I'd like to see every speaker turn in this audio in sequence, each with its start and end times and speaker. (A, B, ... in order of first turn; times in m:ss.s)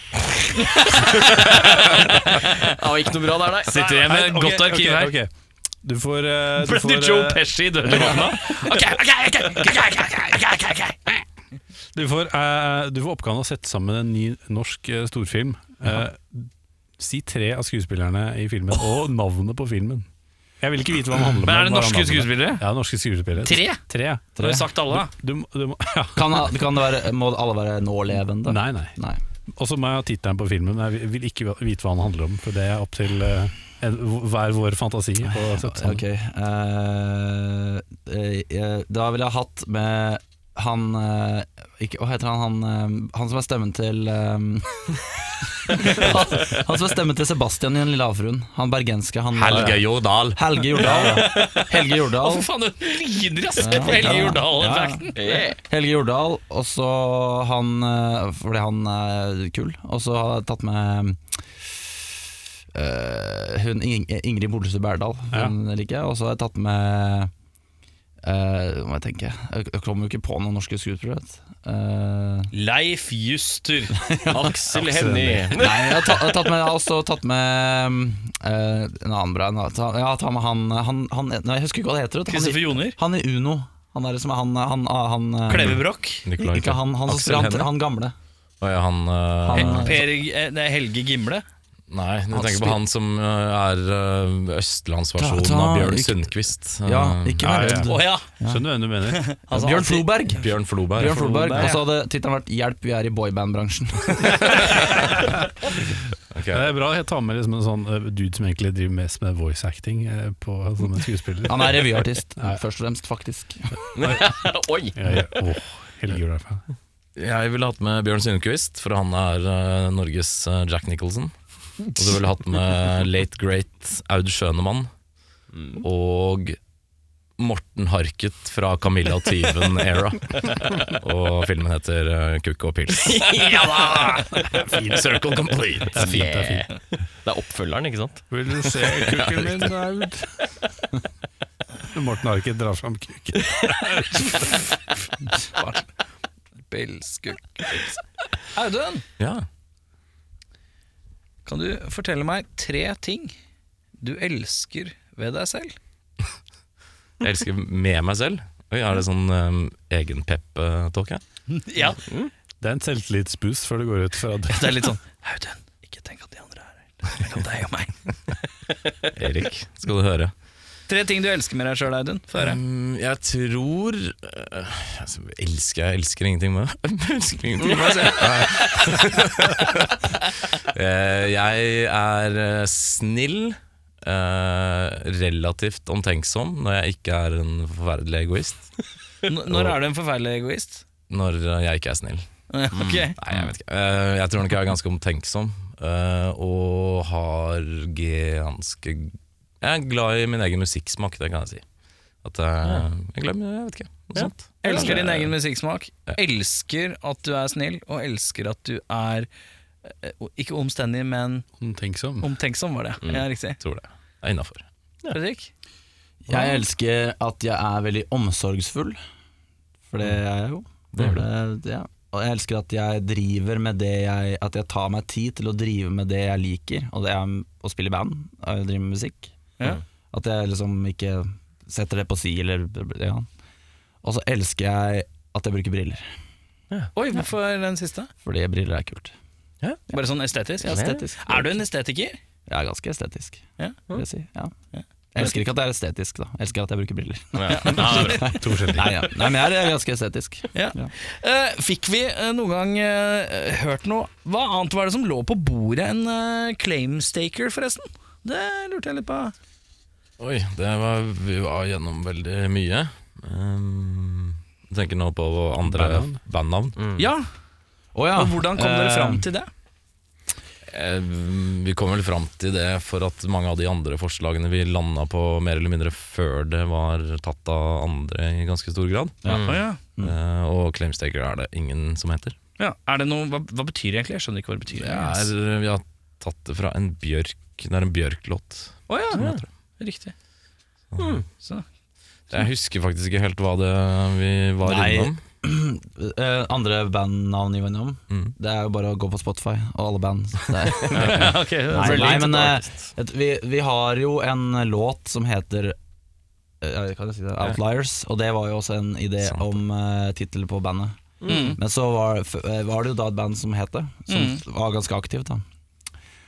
0:00.5-0:02.6 A
0:01.2-0:04.1 B
0:03.6-0:05.2 A
0:03.9-0:05.3 C
0:05.8-0:08.4 C
0:06.6-0:11.0 A
0:11.9-0:20.1 C
0:20.6-0:26.6 C
0:21.4-0:22.7 A
0:23.4-0:23.8 A
0:24.4-0:25.1 A
0:26.1-0:29.2 D
0:28.4-0:29.0 C
0:29.5-0:36.0 C
0:35.3-0:52.5 D
0:49.3-0:51.1 E
0:50.7-0:55.4 A
0:53.6-1:01.2 D
0:55.1-0:55.6 B
1:02.7-1:07.3 D
1:08.2-1:12.5 D
1:12.5-1:14.1 A
1:14.0-1:14.4 D
1:14.3-1:16.4 B
1:14.7-1:15.5 C
1:15.5-1:25.8 D
1:22.3-1:23.0 A
1:25.5-1:26.3 A
1:25.6-1:27.7 E
1:26.4-1:28.1 D
1:28.6-1:30.0 E
1:29.4-1:30.1 D
1:29.5-1:31.4 A
1:31.9-1:37.8 E
1:32.4-1:32.8 D
1:35.2-1:36.3 D
1:36.8-1:38.6 D
1:37.4-1:39.2 C
1:37.8-1:38.3 A
1:39.1-1:40.4 A
1:39.5-1:45.1 D
1:40.4-1:41.6 E
1:41.0-1:41.8 A
1:46.3-1:46.7 E
1:46.5-1:52.6 C
1:51.5-1:53.8 D
1:53.9-1:55.0 B
1:54.0-1:54.4 C
1:54.9-1:56.6 C
1:57.2-2:01.3 E
2:01.9-2:04.9 E
2:05.5-2:05.8 B
2:05.8-2:06.6 E
2:07.4-2:13.4 E
2:12.9-2:14.3 B
2:13.5-2:14.1 A
2:14.5-2:15.1 C
2:14.8-2:16.0 E
2:15.8-2:16.7 C
2:15.9-2:18.2 B
2:18.3-2:20.3 C
2:19.1-2:19.6 E
2:21.9-2:24.5 C
2:24.2-2:24.6 A
2:25.4-2:25.9 A
2:26.7-2:28.0 A
2:28.5-2:29.0 A
2:29.2-2:29.4 E
2:31.4-2:33.3 A
2:34.0-2:35.8 A
2:37.2-2:41.2 E
2:41.5-2:42.0 A
2:42.1-2:42.3 B
2:42.6-2:44.9 C
2:44.5-2:48.0 A
2:49.1-2:50.3 E
2:50.9-2:52.6 A
2:52.3-2:59.9 E
2:57.6-2:58.5 B
3:00.7-3:08.7 E
3:09.3-3:10.8 A
3:09.5-3:09.8 E
3:11.1-3:12.2 E
3:12.5-3:13.2 A
3:12.8-3:13.5 B
3:13.2-3:21.6 E
3:22.2-3:25.3 E
3:24.1-3:25.0 B
3:24.6-3:29.3 A
3:29.8-3:31.5 A
3:31.6-3:32.3 C
3:32.2-3:33.6 A
3:33.6-3:34.6 E
3:35.1-3:35.5 A
3:36.2-3:39.0 D
3:36.3-3:36.6 A
3:39.9-3:49.3 D
3:41.0-3:41.2 E
3:50.1-3:53.3 D
3:54.0-3:56.1 D
3:56.9-3:58.1 A
3:58.2-3:59.1 D
3:59.9-4:02.2 A
4:00.7-4:01.1 B
4:00.7-4:01.4 D
4:02.5-4:04.5 D
4:04.7-4:05.4 A
4:05.1-4:10.9 D
4:07.3-4:08.4 B
4:07.5-4:08.4 A
4:08.3-4:09.1 C
4:10.5-4:19.3 A
4:20.2-4:26.8 E
4:25.6-4:26.2 C
4:26.8-4:27.0 B
4:27.0-4:27.3 A
4:27.9-4:29.2 D
4:28.1-4:29.5 A
4:30.7-4:39.3 E
4:39.2-4:40.2 D
4:39.3-4:39.6 B
4:39.3-4:39.8 A
4:40.0-4:42.4 E
4:42.6-4:45.3 A
4:44.7-4:49.4 E
4:48.9-4:49.2 A
4:49.1-4:49.4 B
4:49.8-4:50.1 A
4:50.9-4:51.2 E
4:51.0-4:51.2 B
4:51.4-4:51.6 A
4:52.3-4:55.2 E
4:54.6-5:05.8 D
5:00.8-5:02.5 A
5:00.9-5:02.9 B
5:06.6-5:15.4 D
5:11.2-5:11.6 B
5:11.2-5:11.6 A
5:14.1-5:14.4 A